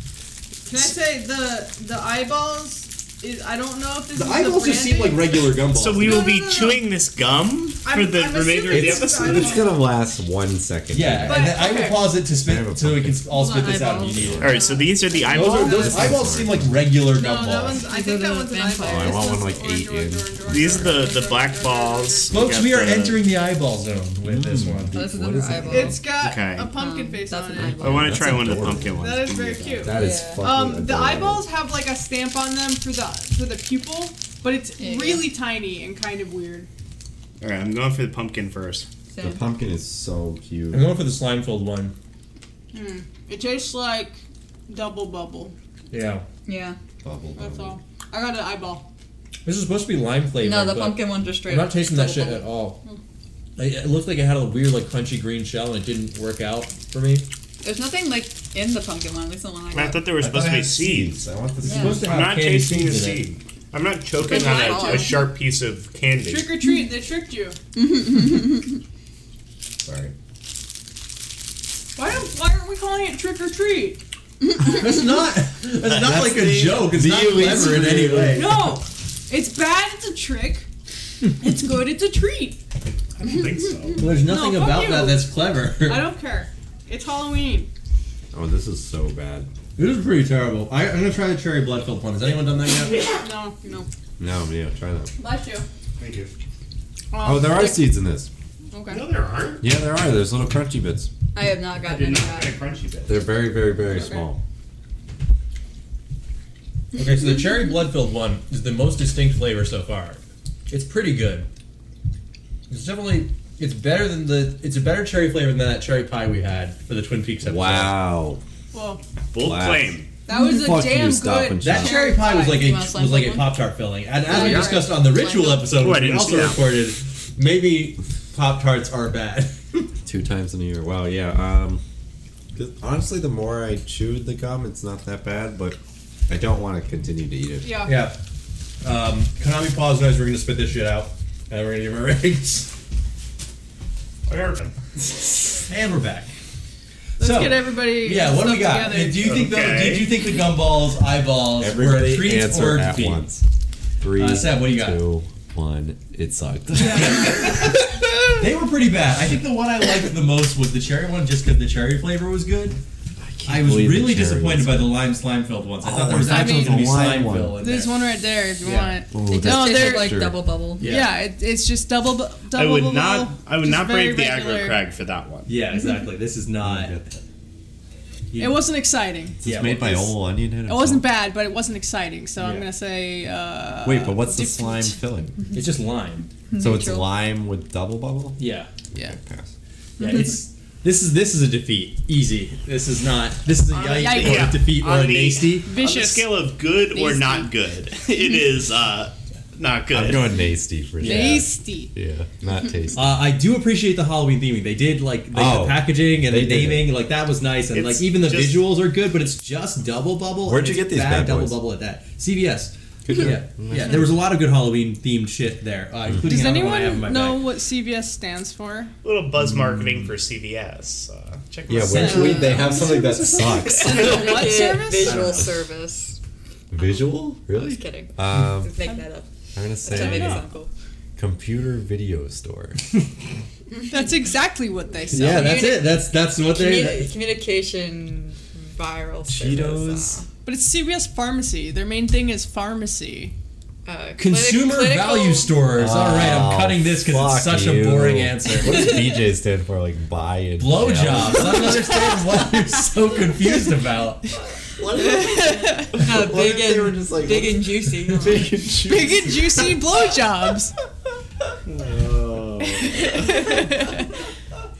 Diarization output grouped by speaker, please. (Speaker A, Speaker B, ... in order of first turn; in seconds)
Speaker A: 0.7-5.5, 6.2-6.8, 7.8-9.8, 11.2-12.2, 14.5-16.0, 17.0-22.6, 25.6-36.7, 42.7-44.2, 44.7-45.5, 47.4-48.8, 64.2-65.3, 66.2-67.6, 71.9-74.0, 78.3-80.7, 81.4-82.6, 84.2-85.2, 85.8-87.7, 93.2-93.8, 95.2-95.7, 97.1-97.9, 98.7-99.0, 118.7-119.0, 120.3-122.5, 137.6-137.9, 147.2-149.3, 166.1-167.0, 167.6-170.2, 170.8-174.8, 178.3-184.9, 193.9-194.6, 195.7-196.3, 196.9-197.5, 201.0-201.9, 216.2-218.9, 221.9-225.3, 229.9-230.4, 233.9-235.9, 240.4-243.3, 254.9-256.0, 258.8-260.7, 262.8-264.1
Speaker B: 4.1-6.3, 10.9-14.5, 15.3-17.8, 22.3-24.9, 40.7-41.9, 45.9-46.2, 49.4-52.8, 53.6-57.2, 60.4-60.7, 61.7-63.2, 74.6-78.7, 84.0-86.1, 89.8-93.1, 106.9-111.5, 112.7-118.0, 121.6-129.8, 137.8-138.2, 138.8-142.7, 145.6-146.3, 147.2-153.2, 154.2-155.0, 156.7-162.8, 163.4-167.9, 168.6-169.0, 170.8-171.2, 175.4-177.0, 178.3-178.6, 179.4-180.0, 182.4-182.7, 185.5-186.3, 188.4-188.7, 190.0-195.7, 201.0-201.4, 202.9-217.4, 221.8-224.1, 224.9-225.5, 235.1-237.1, 244.2-248.9, 250.6-254.3
Speaker C: 5.7-9.7, 14.4-16.2, 20.5-23.2, 26.2-26.7, 27.7-29.9, 37.4-38.9, 59.7-61.2, 61.9-66.6, 83.2-84.1, 96.0-96.3, 98.9-99.6, 101.8-103.3, 119.3-120.1, 124.3-124.7, 125.7-126.6, 144.3-144.7, 149.2-150.1, 172.5-175.5, 194.1-200.3, 207.7-208.7, 219.0-222.5
Speaker D: 6.0-6.7, 13.3-14.8, 17.9-19.3, 24.9-26.0, 26.7-28.3, 29.9-30.4, 34.8-35.3, 39.1-39.4, 46.5-46.8, 50.4-52.5, 57.6-60.1, 61.6-62.0, 64.2-65.3, 67.8-68.7, 101.3-102.6, 121.8-123.6, 124.3-125.7, 169.2-170.8, 186.5-187.1, 223.9-226.2, 227.5-229.3, 229.8-230.7, 236.5-240.2, 243.8-245.5, 255.8-258.5
Speaker E: 8.7-11.6, 12.4-13.3, 13.9-14.6, 15.6-16.8, 18.8-21.1, 24.2-26.0, 27.6-31.4, 39.2-40.9, 47.0-47.8, 60.2-62.1, 69.8-70.1, 75.8-78.7, 88.3-89.5, 94.2-95.1, 97.2-98.3, 99.6-101.1, 103.0-104.4, 117.4-118.4, 119.4-121.9, 130.0-131.8, 132.5-135.8, 136.3-137.8, 151.6-153.4, 154.0-157.8, 163.2-164.9, 165.8-167.6, 169.1-170.4, 176.6-177.2, 179.4-181.1, 183.8-185.4, 186.6-188.4, 188.9-189.5, 199.9-203.1, 205.3-207.0, 210.4-211.6, 213.1-214.1, 221.7-224.5, 226.7-228.7, 229.5-230.4, 231.2-232.8, 239.3-240.2, 245.8-251.9, 254.8-259.8, 261.5-263.4